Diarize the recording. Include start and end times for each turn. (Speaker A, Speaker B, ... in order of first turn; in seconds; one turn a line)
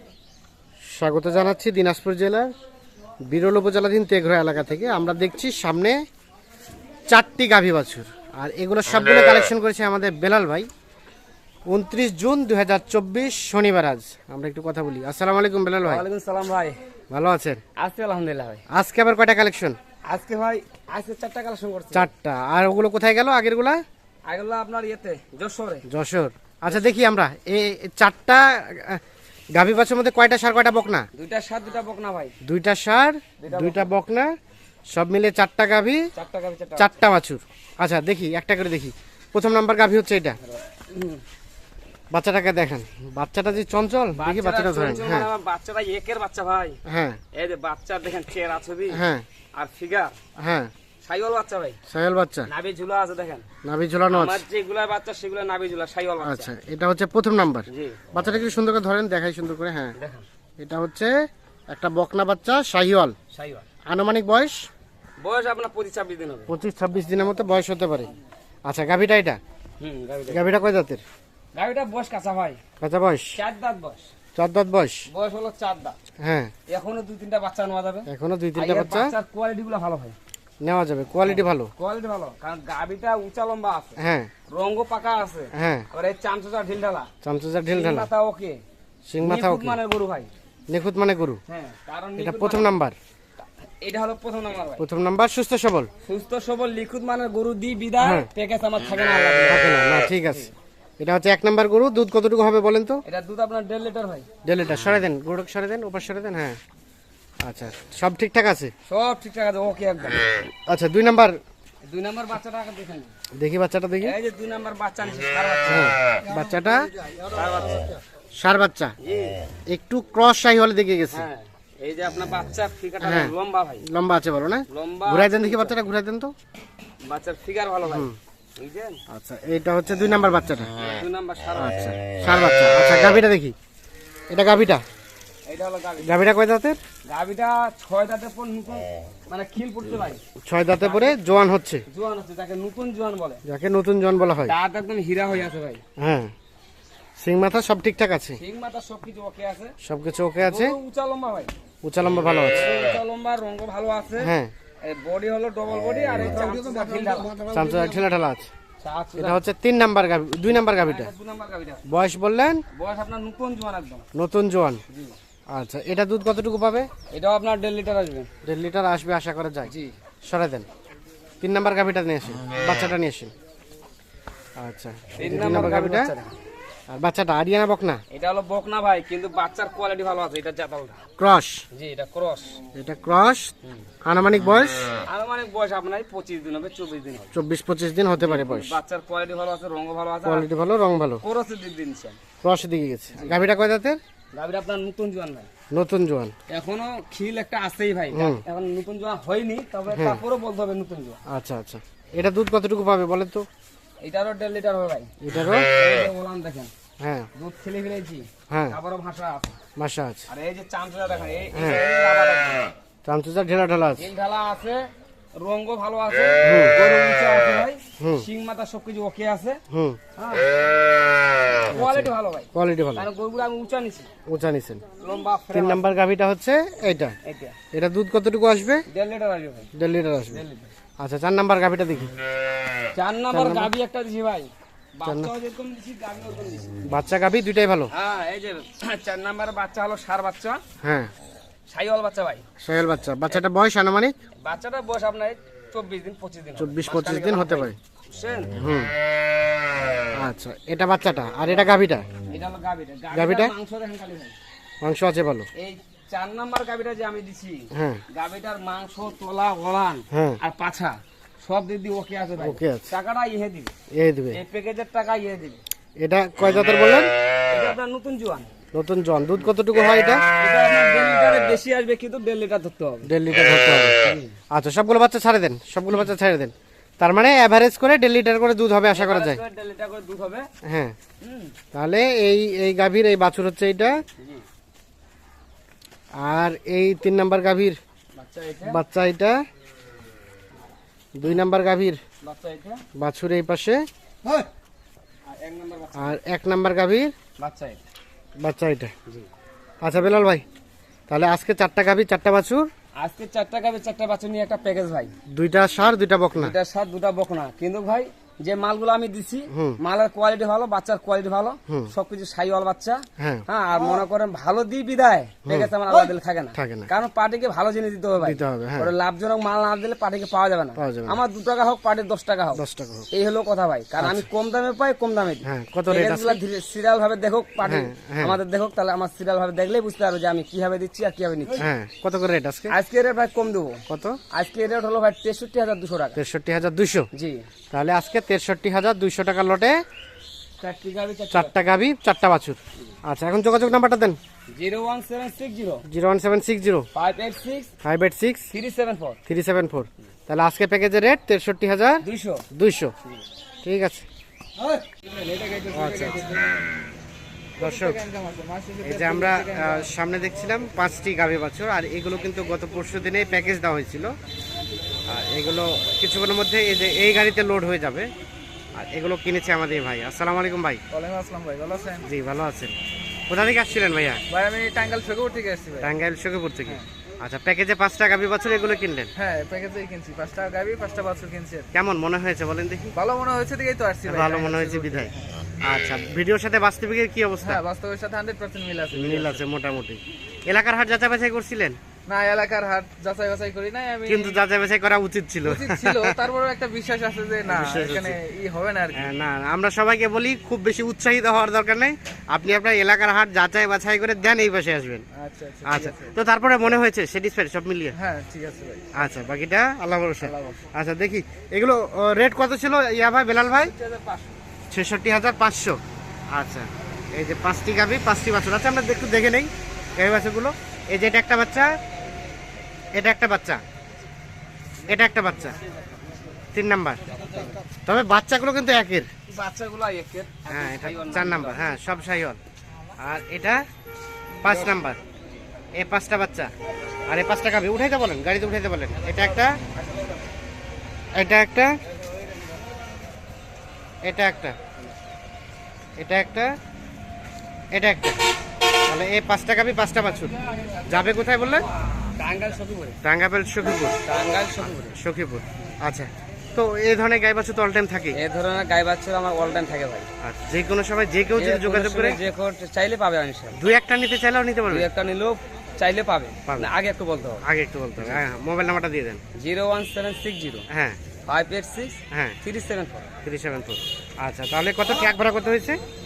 Speaker A: 0.8-2.5
Speaker A: 3.2-6.0
Speaker A: 7.1-10.7
Speaker A: 11.7-16.0
Speaker B: 15.8-16.8
Speaker A: 17.1-17.6
Speaker B: 17.8-18.6
Speaker A: 18.7-19.8
Speaker B: 20.1-22.1
Speaker A: 21.9-23.8
Speaker B: 24.3-25.8
Speaker A: 25.9-29.0
Speaker A: 29.6-31.1
Speaker B: 31.1-32.3
Speaker A: 32.4-34.3
Speaker B: 33.4-33.9
Speaker A: 34.9-36.0
Speaker B: 36.1-37.0
Speaker A: 36.8-40.4
Speaker B: 40.4-41.2
Speaker A: 42.1-45.3
Speaker B: 44.1-46.8
Speaker A: 46.9-47.2
Speaker B: 47.3-49.0
Speaker A: 48.9-49.2
Speaker B: 49.5-50.2
Speaker A: 50.4-50.7
Speaker B: 51.0-51.8
Speaker A: 51.9-52.5
Speaker B: 52.5-53.5
Speaker A: 53.6-54.4
Speaker B: 54.1-56.5
Speaker A: 56.2-59.9
Speaker B: 57.7-58.0
Speaker B: 60.0-60.2
Speaker A: 60.6-61.1
Speaker A: 61.7-63.1
Speaker B: 63.3-63.7
Speaker A: 63.9-64.7
Speaker B: 65.2-66.5
Speaker A: 66.5-68.1
Speaker A: 68.6-69.4
Speaker B: 69.8-70.5
Speaker A: 70.3-71.0
Speaker B: 71.5-72.6
Speaker A: 72.8-73.4
Speaker B: 73.3-74.1
Speaker A: 74.3-75.0
Speaker B: 75.1-76.0
Speaker A: 76.2-76.5
Speaker B: 76.7-80.2
Speaker A: 78.1-79.1
Speaker A: 80.6-81.7
Speaker B: 81.2-87.1
Speaker A: 84.0-84.3
Speaker A: 85.5-85.9
Speaker A: 87.2-88.1
Speaker B: 87.7-88.6
Speaker A: 89.1-89.8
Speaker B: 89.2-90.3
Speaker A: 90.7-91.4
Speaker B: 91.5-92.8
Speaker A: 92.2-93.0
Speaker B: 93.8-94.8
Speaker A: 94.8-95.9
Speaker B: 96.0-99.7
Speaker A: 98.0-98.3
Speaker A: 99.5-103.0
Speaker B: 103.0-104.3
Speaker A: 104.4-106.6
Speaker A: 107.4-108.7
Speaker B: 108.9-110.4
Speaker A: 110.7-111.4
Speaker B: 111.9-113.1
Speaker A: 113.3-114.1
Speaker B: 114.0-116.0
Speaker A: 115.7-116.8
Speaker B: 117.2-118.0
Speaker A: 118.4-118.9
Speaker B: 119.0-119.4
Speaker A: 119.7-121.3
Speaker B: 121.1-123.8
Speaker A: 123.0-123.3
Speaker A: 123.8-126.3
Speaker B: 124.7-125.8
Speaker B: 127.0-129.0
Speaker A: 127.8-128.2
Speaker A: 129.1-130.7
Speaker B: 130.8-132.0
Speaker A: 131.6-133.5
Speaker A: 134.3-134.8
Speaker B: 135.4-136.2
Speaker A: 136.0-136.8
Speaker B: 137.1-140.2
Speaker A: 140.4-141.8
Speaker B: 140.8-143.4
Speaker A: 143.4-144.5
Speaker B: 144.4-145.8
Speaker A: 146.0-146.3
Speaker A: 147.2-148.4
Speaker B: 148.4-149.7
Speaker A: 149.8-150.8
Speaker B: 150.4-151.5
Speaker A: 151.8-152.7
Speaker B: 152.5-157.3
Speaker A: 154.2-154.5
Speaker A: 157.4-158.5
Speaker B: 158.8-159.4
Speaker A: 159.2-161.1
Speaker B: 160.5-161.8
Speaker A: 161.9-162.6
Speaker B: 162.7-164.0
Speaker A: 164.1-164.8
Speaker B: 164.9-165.1
Speaker A: 165.5-166.9
Speaker B: 167.1-168.3
Speaker A: 168.4-169.7
Speaker B: 169.7-169.9
Speaker A: 170.2-170.7
Speaker A: 171.4-173.3
Speaker A: 174.6-176.1
Speaker B: 175.2-176.3
Speaker A: 176.9-178.0
Speaker B: 178.1-181.0
Speaker A: 181.2-181.6
Speaker B: 181.7-182.6
Speaker A: 182.7-183.5
Speaker A: 184.0-184.8
Speaker B: 185.0-187.4
Speaker A: 187.3-188.8
Speaker B: 188.2-190.5
Speaker A: 190.2-191.2
Speaker B: 191.2-192.2
Speaker A: 192.4-194.0
Speaker B: 193.1-193.4
Speaker B: 194.3-195.5
Speaker A: 195.7-196.3
Speaker B: 196.5-201.2
Speaker A: 198.1-198.4
Speaker A: 199.9-200.2
Speaker A: 201.3-203.5
Speaker B: 204.0-205.1
Speaker A: 205.2-205.7
Speaker B: 205.7-206.7
Speaker A: 207.0-207.3
Speaker B: 207.3-209.6
Speaker A: 208.5-208.8
Speaker A: 209.8-210.2
Speaker B: 210.3-212.7
Speaker A: 211.5-211.8
Speaker A: 213.0-214.1
Speaker B: 214.0-214.8
Speaker B: 215.3-219.6
Speaker A: 216.4-216.8
Speaker A: 218.0-218.2
Speaker A: 219.7-220.0
Speaker B: 220.2-220.6
Speaker B: 221.7-224.1
Speaker A: 221.7-223.1
Speaker A: 224.3-224.8
Speaker B: 225.0-225.9
Speaker A: 225.5-227.1
Speaker B: 227.2-227.6
Speaker A: 227.7-228.8
Speaker B: 228.9-229.7
Speaker A: 229.8-230.4
Speaker B: 230.3-230.7
Speaker A: 231.0-232.1
Speaker B: 232.9-236.7
Speaker A: 233.3-233.7
Speaker A: 235.0-235.3
Speaker A: 236.9-237.9
Speaker B: 237.9-240.6
Speaker A: 240.8-241.1
Speaker B: 241.7-242.4
Speaker A: 242.6-244.1
Speaker B: 244.4-248.5
Speaker A: 246.6-247.8
Speaker A: 248.6-248.9
Speaker A: 250.1-252.1
Speaker B: 251.5-251.7
Speaker B: 252.3-254.3
Speaker A: 253.1-253.5
Speaker A: 254.8-255.5
Speaker B: 255.6-263.7
Speaker A: 257.7-258.0
Speaker A: 260.1-260.4
Speaker A: 262.4-262.9
Speaker A: 263.9-264.4
Speaker B: 264.3-265.6
Speaker A: 266.0-267.1
Speaker B: 267.5-268.5
Speaker A: 268.7-270.2
Speaker B: 270.4-273.1
Speaker A: 273.1-279.4
Speaker B: 274.0-274.4
Speaker B: 278.9-280.5
Speaker A: 280.6-280.9
Speaker B: 281.2-281.5
Speaker A: 281.7-284.0
Speaker B: 284.2-284.4
Speaker A: 286.1-287.8
Speaker B: 288.1-288.8
Speaker A: 288.7-289.4
Speaker A: 291.1-292.0
Speaker B: 292.2-292.8
Speaker A: 292.9-293.9
Speaker B: 295.3-296.2
Speaker A: 295.9-297.1
Speaker B: 297.4-297.8
Speaker A: 298.4-298.9
Speaker A: 299.8-300.4
Speaker A: 301.1-302.7
Speaker B: 302.9-305.1
Speaker A: 305.3-306.5
Speaker B: 306.3-331.6
Speaker A: 309.5-309.8
Speaker A: 313.2-313.4
Speaker A: 315.4-315.7
Speaker A: 316.6-316.9
Speaker A: 318.2-318.9
Speaker A: 320.8-321.2
Speaker A: 322.5-323.1
Speaker A: 324.0-324.2
Speaker A: 325.4-326.4
Speaker A: 327.6-328.4
Speaker A: 331.6-332.7
Speaker B: 332.7-336.2
Speaker A: 333.9-334.2
Speaker A: 336.1-337.1
Speaker B: 337.1-337.4
Speaker A: 337.7-339.8
Speaker B: 340.6-341.6
Speaker A: 341.3-344.2
Speaker B: 344.5-345.8
Speaker A: 345.9-346.9
Speaker B: 346.9-347.7
Speaker A: 347.8-348.5
Speaker B: 348.5-349.2
Speaker A: 349.3-352.9
Speaker B: 352.0-352.4
Speaker A: 353.6-354.1
Speaker B: 354.9-356.4
Speaker A: 355.7-356.2
Speaker A: 357.6-358.1
Speaker C: 357.6-359.9
Speaker A: 358.8-364.1
Speaker A: 365.1-368.1
Speaker A: 368.8-370.8
Speaker C: 370.9-372.1
Speaker A: 372.1-372.7
Speaker A: 373.3-374.2
Speaker C: 374.3-375.9
Speaker A: 375.8-379.1
Speaker C: 379.2-381.7
Speaker A: 381.7-382.9
Speaker C: 382.9-385.2
Speaker A: 384.0-387.6
Speaker C: 387.4-389.4
Speaker A: 388.9-391.8
Speaker C: 392.1-394.4
Speaker A: 394.1-396.2
Speaker C: 395.4-399.1
Speaker A: 397.4-398.2
Speaker A: 398.9-405.0
Speaker C: 405.1-406.1
Speaker A: 405.6-407.9
Speaker C: 407.9-408.9
Speaker A: 408.9-413.7
Speaker C: 410.2-410.6
Speaker B: 413.5-414.4
Speaker A: 414.7-415.8
Speaker A: 416.3-421.7
Speaker A: 422.9-423.6
Speaker A: 424.9-425.6
Speaker A: 426.5-427.0
Speaker A: 427.9-429.1
Speaker B: 429.3-431.7
Speaker A: 430.5-432.4
Speaker A: 433.0-433.6
Speaker A: 434.4-435.0
Speaker B: 434.4-434.8
Speaker A: 435.8-436.5
Speaker A: 437.1-439.6
Speaker A: 441.1-441.7
Speaker A: 444.0-444.6
Speaker A: 446.0-446.5
Speaker A: 447.7-448.2
Speaker A: 448.8-451.7
Speaker B: 452.0-453.0
Speaker A: 453.0-454.0
Speaker B: 453.9-455.0
Speaker A: 454.6-458.2
Speaker B: 458.1-460.1
Speaker A: 460.2-462.2
Speaker B: 461.4-463.6
Speaker A: 463.5-464.9
Speaker B: 464.7-467.4
Speaker A: 467.4-469.2
Speaker B: 468.0-468.2
Speaker B: 469.4-470.6
Speaker A: 470.7-471.0
Speaker B: 471.2-473.1
Speaker A: 472.1-472.4
Speaker A: 473.2-475.8